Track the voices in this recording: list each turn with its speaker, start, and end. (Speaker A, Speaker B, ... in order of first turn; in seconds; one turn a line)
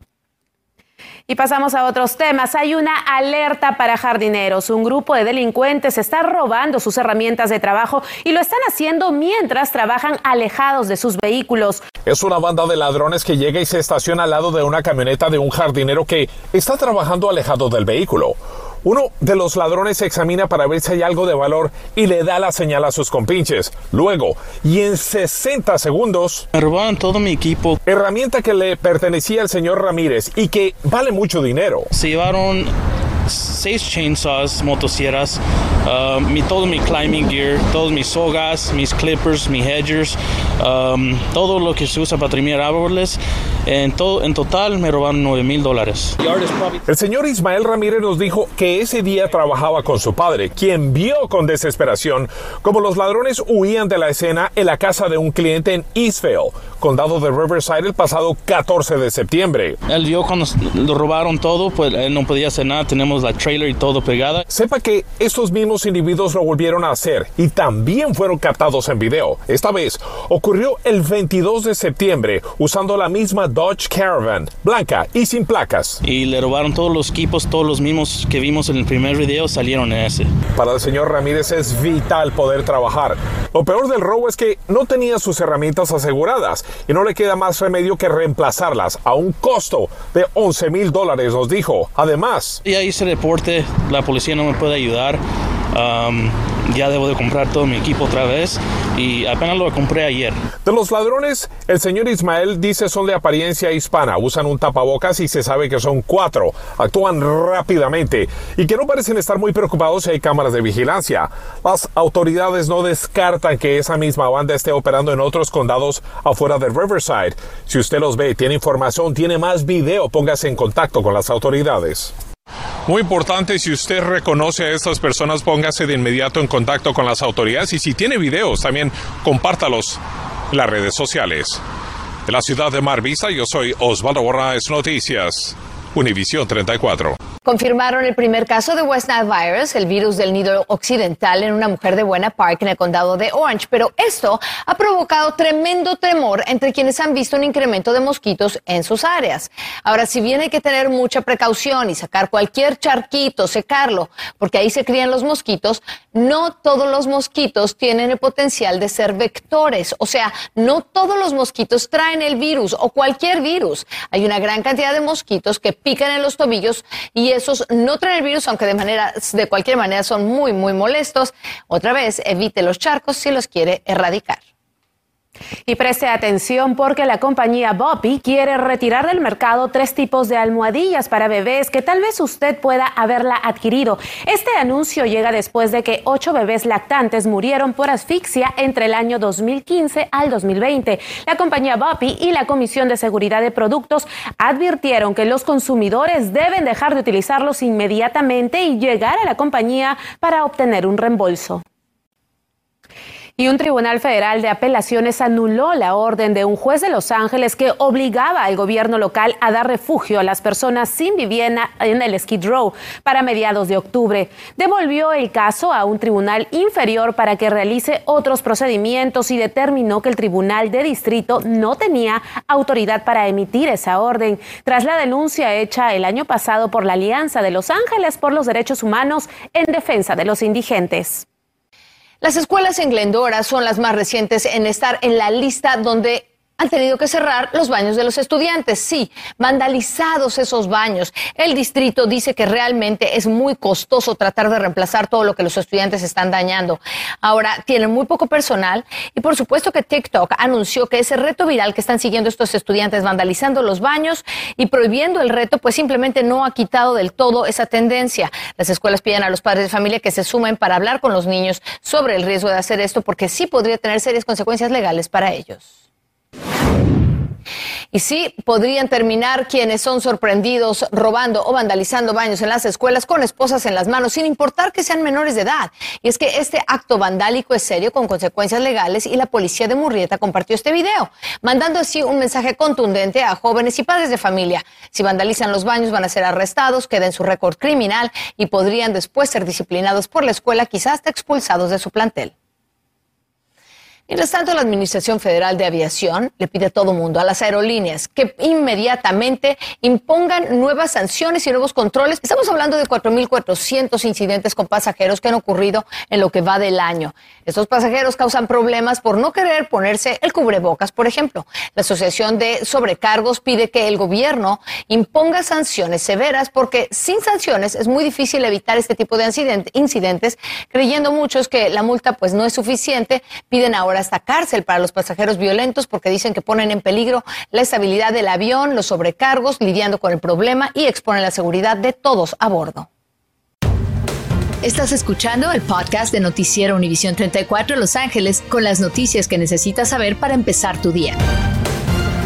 Speaker A: 1.3-11.8
Speaker B: 12.0-26.4
Speaker C: 26.5-27.8
Speaker B: 27.9-31.9
Speaker C: 31.9-32.7
Speaker C: 33.2-46.3
Speaker B: 46.9-59.8
Speaker C: 59.9-64.4
Speaker B: 64.5-76.0
Speaker C: 76.0-80.3
Speaker B: 80.5-92.6
Speaker C: 92.6-95.2
Speaker C: 95.7-100.4
Speaker B: 100.6-122.1
Speaker B: 122.8-130.0
Speaker B: 130.5-131.6
Speaker B: 132.2-137.2
Speaker D: 137.4-174.4
Speaker A: 175.7-201.6
Speaker A: 203.4-231.2
Speaker D: 232.2-265.7
Speaker D: 267.9-292.3
Speaker D: 294.1-332.9
Speaker E: 334.6-341.2